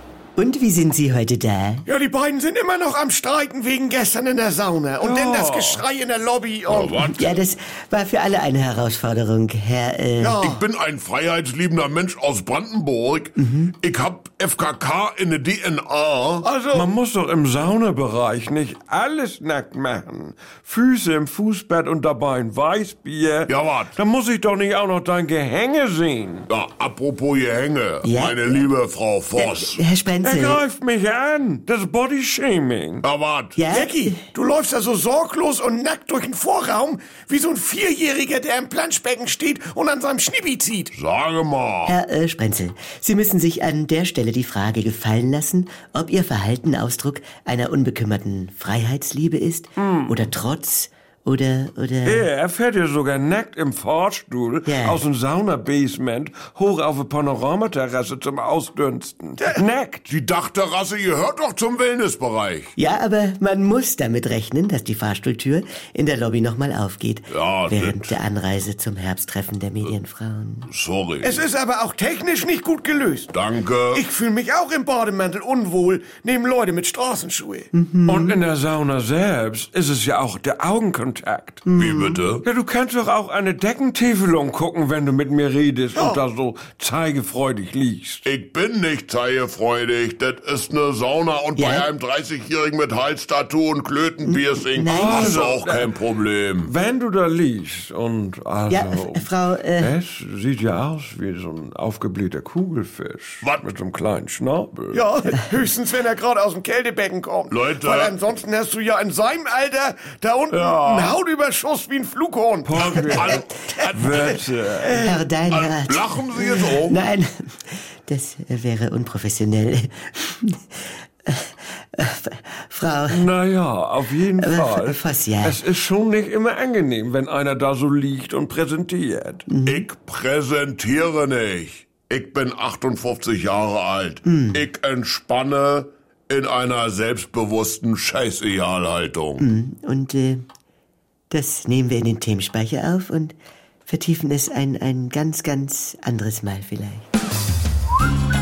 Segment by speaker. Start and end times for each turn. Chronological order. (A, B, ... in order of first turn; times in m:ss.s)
0:00.4-0:01.8 A
0:01.8-0:07.1 B
0:05.0-0:05.8 C
0:06.7-0:07.3 D
0:07.0-0:10.4 A
0:10.2-0:10.6 B
0:10.4-0:16.5 D
0:13.4-0:13.7 A
0:16.4-0:16.9 B
0:16.7-0:26.5 C
0:23.5-0:24.0 D
0:26.5-0:29.8 D
0:28.0-0:28.6 A
0:29.4-0:30.6 A
0:30.2-0:33.0 C
0:33.0-0:33.6 D
0:33.6-0:34.2 A
0:33.7-0:40.9 B
0:40.9-0:42.0 D
0:41.8-0:52.3 A
0:49.8-0:50.3 C
0:52.0-1:00.1 C
0:54.6-0:55.0 A
1:00.1-1:02.7 D
1:02.8-1:10.7 A
1:07.3-1:08.2 D
1:10.7-1:11.5 D
1:11.2-1:13.3 B
1:13.3-1:14.0 D
1:13.9-1:17.7 B
1:17.7-1:18.4 A
1:18.1-1:21.7 C
1:21.7-1:22.2 A
1:21.8-1:22.4 D
1:22.4-1:28.2 C
1:25.9-1:26.2 B
1:28.2-1:36.7 D
1:31.6-1:31.9 A
1:34.2-1:35.4 A
1:34.8-1:35.9 C
1:36.6-1:45.1 C
1:38.7-1:39.9 A
1:43.4-1:43.7 D
1:44.9-1:53.6 B
1:47.5-1:48.2 D
1:50.5-1:51.2 D
1:52.6-1:53.4 C
1:53.0-1:54.4 D
1:53.9-1:55.0 C
1:54.8-1:55.2 B
1:54.9-2:03.3 A
1:55.5-1:57.0 D
2:03.1-2:09.4 C
2:04.4-2:05.6 A
2:09.5-2:09.8 A
2:09.7-2:19.4 D
2:14.2-2:14.6 A
2:19.4-2:20.5 A
2:21.3-2:27.1 A